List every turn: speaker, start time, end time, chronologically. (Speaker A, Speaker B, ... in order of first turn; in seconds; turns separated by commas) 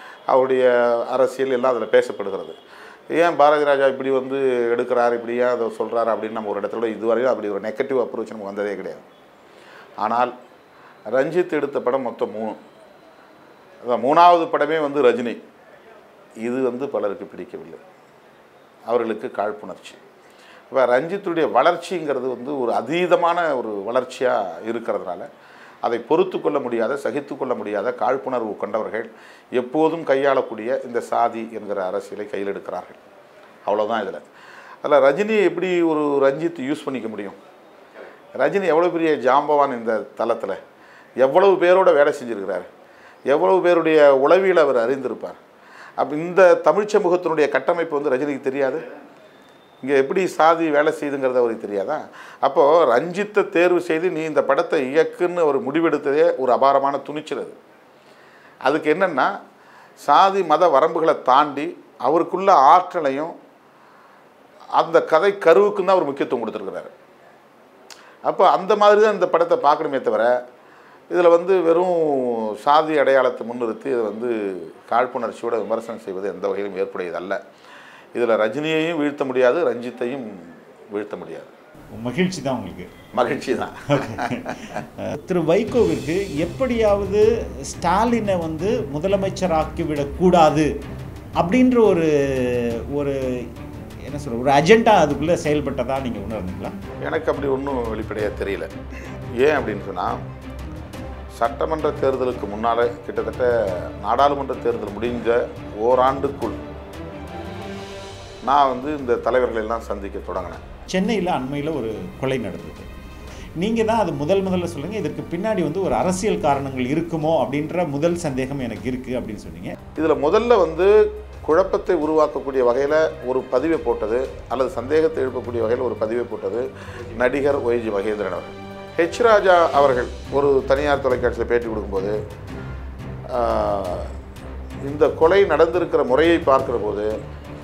Speaker A: 0.3-2.6, Speaker A: 3.1-9.1, Speaker A: 10.0-10.3, Speaker A: 11.1-12.6, Speaker A: 13.8-15.4, Speaker A: 16.4-17.8, Speaker A: 18.9-20.0, Speaker A: 20.7-25.3, Speaker A: 25.8-33.0, Speaker A: 33.7-34.2, Speaker A: 34.8-37.4, Speaker A: 38.4-40.6, Speaker A: 41.2-42.7, Speaker A: 43.3-45.4, Speaker A: 46.0-48.9, Speaker A: 49.8-57.6, Speaker A: 58.6-59.3, Speaker A: 60.0-63.4, Speaker A: 64.8-66.9, Speaker A: 68.3-70.3, Speaker A: 71.1-77.4, Speaker A: 78.2-81.5, Speaker B: 81.9-82.9, Speaker A: 83.1-84.7, Speaker B: 83.9-90.7, Speaker B: 91.4-93.2, Speaker B: 94.1-96.8, Speaker A: 97.0-98.7, Speaker A: 99.4-100.2, Speaker A: 101.3-106.6, Speaker A: 108.5-110.6, Speaker B: 110.9-112.9, Speaker B: 113.6-119.8, Speaker A: 120.0-120.9, Speaker A: 121.4-132.2, Speaker A: 133.3-134.1, Speaker A: 134.8-137.1